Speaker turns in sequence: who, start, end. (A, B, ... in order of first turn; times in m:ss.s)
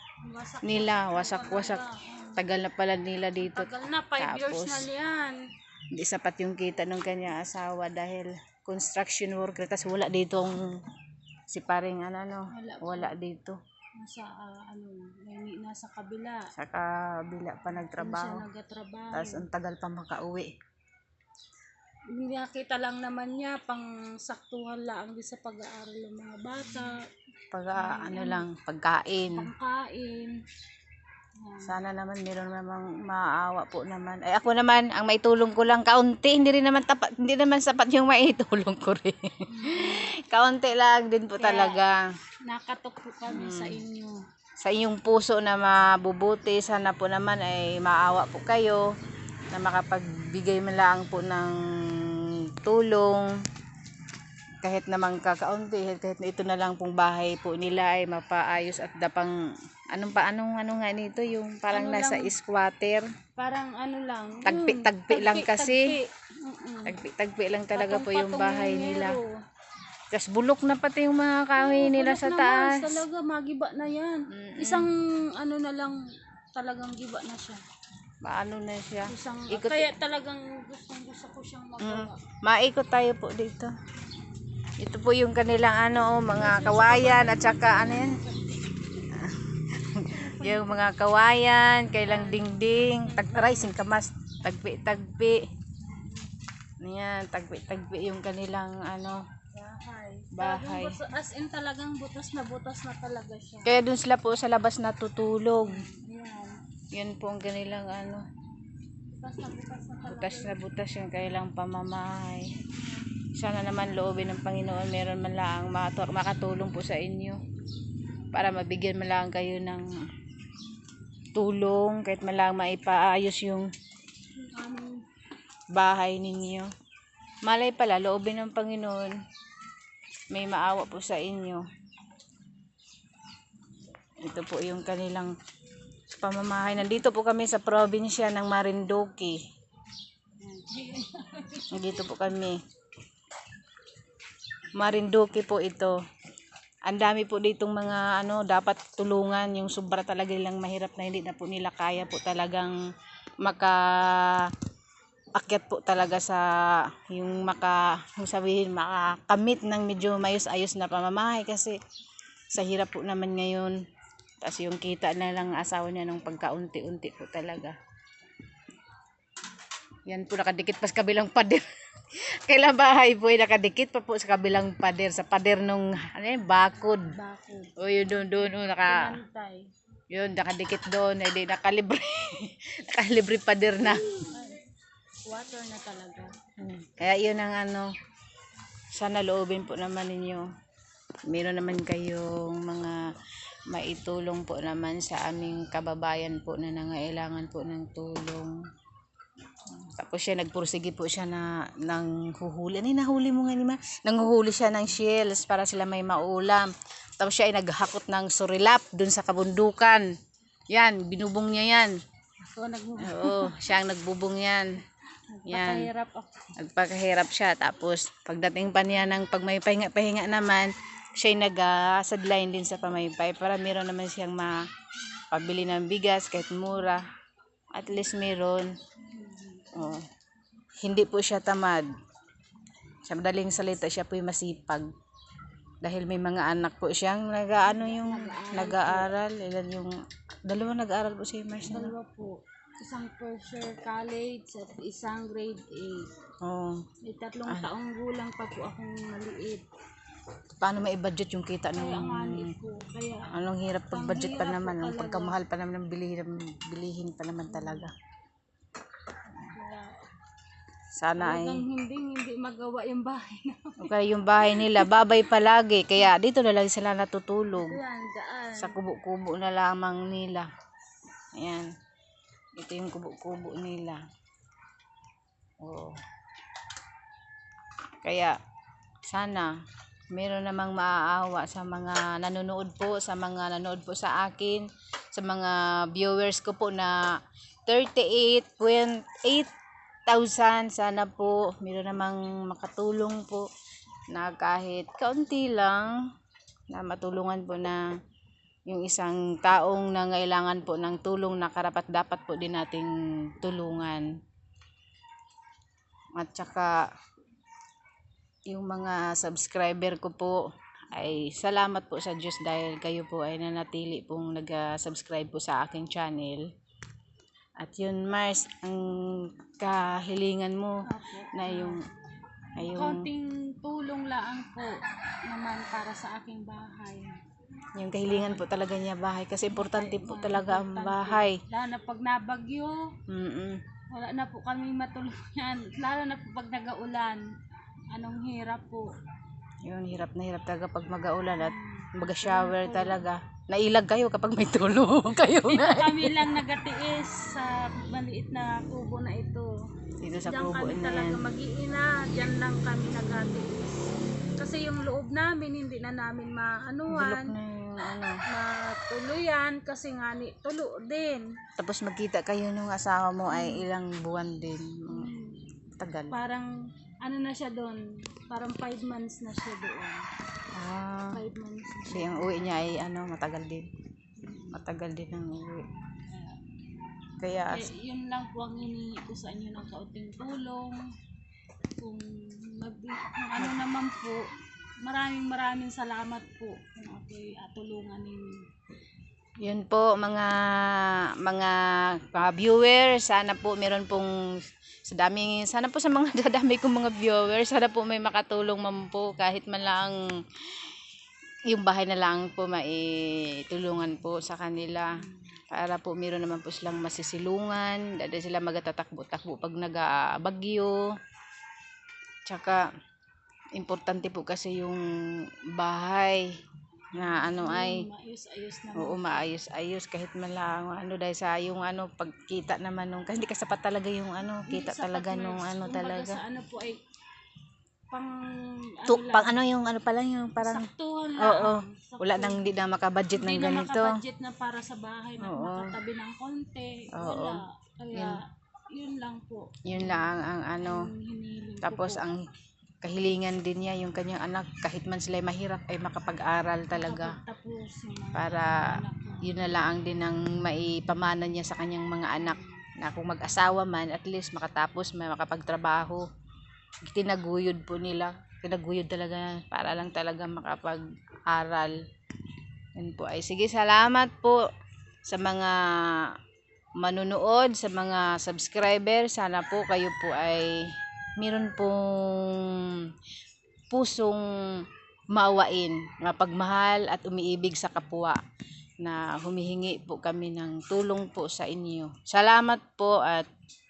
0:00.2-0:02.4 A
0:00.6-0:01.8 B
0:02.4-0:04.9 B
0:03.4-0:05.4 A
0:05.9-0:10.7 B
0:11.5-0:13.6 B
0:12.5-0:13.1 A
0:14.0-0:16.5 A
0:16.5-0:18.4 B
0:18.0-0:19.4 A
0:19.1-0:20.5 B
0:22.1-0:27.0 A
0:27.5-0:29.5 B
0:27.7-0:28.5 A
0:29.3-0:30.4 A
0:31.4-0:31.8 A
0:31.6-0:42.0 B
0:39.5-0:40.1 A
0:41.4-0:41.8 A
0:42.4-0:44.2 A
0:43.2-0:43.8 B
0:44.6-0:48.8 B
0:49.5-0:53.3 B
0:54.6-0:59.3 B
0:59.9-1:03.0 B
1:01.7-1:02.3 A
1:03.4-1:07.0 A
1:04.4-1:05.9 B
1:06.8-1:09.2 B
1:07.7-1:09.4 A
1:10.1-1:13.0 B
1:11.6-1:16.0 A
1:14.3-1:14.9 B
1:16.5-1:17.6 A
1:18.2-1:19.9 B
1:19.1-1:22.2 A
1:21.8-1:23.7 B
1:24.8-1:28.2 B
1:26.2-1:28.7 A
1:29.1-1:35.4 B
1:30.1-1:30.9 A
1:32.0-1:33.7 A
1:35.8-1:36.4 A
1:36.8-1:39.2 B
1:39.5-1:43.7 A
1:40.3-1:41.0 B
1:43.6-1:45.8 B
1:45.6-1:46.6 A
1:46.9-1:48.2 B
1:49.1-1:50.5 A
1:50.1-1:52.5 B
1:52.7-1:53.0 A
1:53.4-1:57.4 B
1:58.3-1:59.9 B
2:01.3-2:03.7 B
2:04.4-2:05.0 A
2:05.7-2:06.7 B
2:07.4-2:09.1 B
2:10.3-2:11.6 B
2:14.2-2:15.3 B
2:16.1-2:19.4 B
2:20.4-2:21.8 A
2:21.7-2:22.6 B
2:24.8-2:25.9 B
2:26.8-2:32.7 B
2:33.4-2:34.5 B
2:35.4-2:41.8 B
2:42.5-2:43.8 B
2:44.4-2:47.8 B
2:50.1-2:57.1 B
2:57.1-2:59.6 A
2:57.8-2:59.1 B
3:00.1-3:04.3 B
3:04.2-3:04.6 A
3:05.2-3:06.3 A
3:06.6-3:07.9 B
3:09.0-3:10.5 B
3:11.3-3:13.0 B
3:13.7-3:18.5 B
3:19.7-3:26.7 B
3:27.2-3:30.0 B
3:30.7-3:31.9 B
3:32.4-3:33.6 A
3:33.0-3:34.7 B
3:35.3-3:36.5 A
3:35.5-3:35.9 B
3:36.6-3:44.5 B
3:45.3-3:47.0 B
3:47.7-3:48.7 B
3:49.1-3:49.9 A
3:49.7-3:50.0 B
3:50.8-3:51.9 B
3:53.0-3:54.9 B
3:55.8-3:59.9 B
3:57.7-3:59.1 A
4:00.5-4:01.9 B
4:01.7-4:06.1 A
4:06.4-4:06.8 B
4:07.0-4:09.6 A
4:10.6-4:12.5 B
4:11.7-4:13.3 A
4:13.3-4:17.9 B
4:13.9-4:15.4 A
4:17.5-4:17.9 A
4:19.3-4:20.0 A
4:21.0-4:21.6 B
4:21.2-4:23.9 A
4:23.8-4:27.8 B
4:24.5-4:25.1 A
4:27.5-4:28.8 A
4:28.6-4:30.5 B
4:31.4-4:31.7 B
4:32.6-4:34.0 B
4:35.6-4:36.0 B
4:38.0-4:38.3 B
4:39.1-4:39.5 B
4:40.1-4:47.0 B
4:47.7-4:49.5 B
4:50.1-4:53.5 B
4:54.1-4:55.9 B
4:56.7-4:57.8 B
4:58.7-5:04.1 B
5:06.2-5:06.8 B
5:08.5-5:10.4 B
5:10.9-5:16.4 B
5:17.6-5:20.8 B
5:20.8-5:21.8 A
5:21.3-5:21.8 B
5:22.6-5:23.1 B
5:22.7-5:24.7 A
5:25.3-5:27.2 A
5:27.8-5:31.4 B
5:28.0-5:28.4 A
5:29.5-5:32.8 A
5:33.1-5:33.6 B
5:33.9-5:37.2 A
5:37.9-5:38.9 A
5:39.7-5:46.4 B
5:41.4-5:43.1 A
5:45.4-5:49.5 A
5:50.0-5:51.2 B
5:50.2-5:57.4 A
5:56.9-5:58.2 B
5:58.3-6:01.3 A
6:01.6-6:05.1 B
6:03.3-6:03.7 A
6:04.9-6:05.4 A
6:05.8-6:06.2 B
6:06.1-6:06.5 A
6:07.0-6:10.0 A
6:10.5-6:11.2 B
6:11.1-6:12.7 A
6:11.9-6:13.7 B
6:14.2-6:14.6 A
6:14.5-6:15.6 B
6:16.1-6:16.4 A
6:17.2-6:17.7 B
6:17.5-6:20.8 A
6:21.8-6:24.3 A
6:24.8-6:28.4 A
6:29.4-6:34.1 B
6:34.9-6:39.9 B
6:41.5-6:45.0 B
6:45.0-6:45.3 A
6:45.5-6:50.7 B
6:52.3-6:52.6 B
6:53.6-6:54.8 B
6:55.6-6:56.2 B
6:56.9-6:57.8 B
6:57.0-6:59.2 A
6:58.7-7:06.2 B
7:04.4-7:06.8 A
7:07.9-7:09.3 A
7:08.9-7:10.6 B
7:10.4-7:12.5 A
7:11.2-7:13.9 B
7:13.1-7:20.1 A
7:15.2-7:15.7 B
7:16.9-7:17.4 B
7:17.9-7:18.2 B
7:19.6-7:20.8 B
7:20.6-7:22.0 A
7:21.6-7:22.2 B
7:22.8-7:27.2 B
7:26.7-7:29.5 A
7:28.1-7:28.7 B
7:29.2-7:36.0 B
7:32.2-7:32.6 A
7:36.8-7:41.7 B
7:42.8-7:44.4 B
7:45.1-7:45.6 B
7:46.8-7:50.5 B
7:51.2-7:52.4 B
7:53.7-7:54.2 B
7:55.1-7:58.2 B
7:58.8-8:03.3 B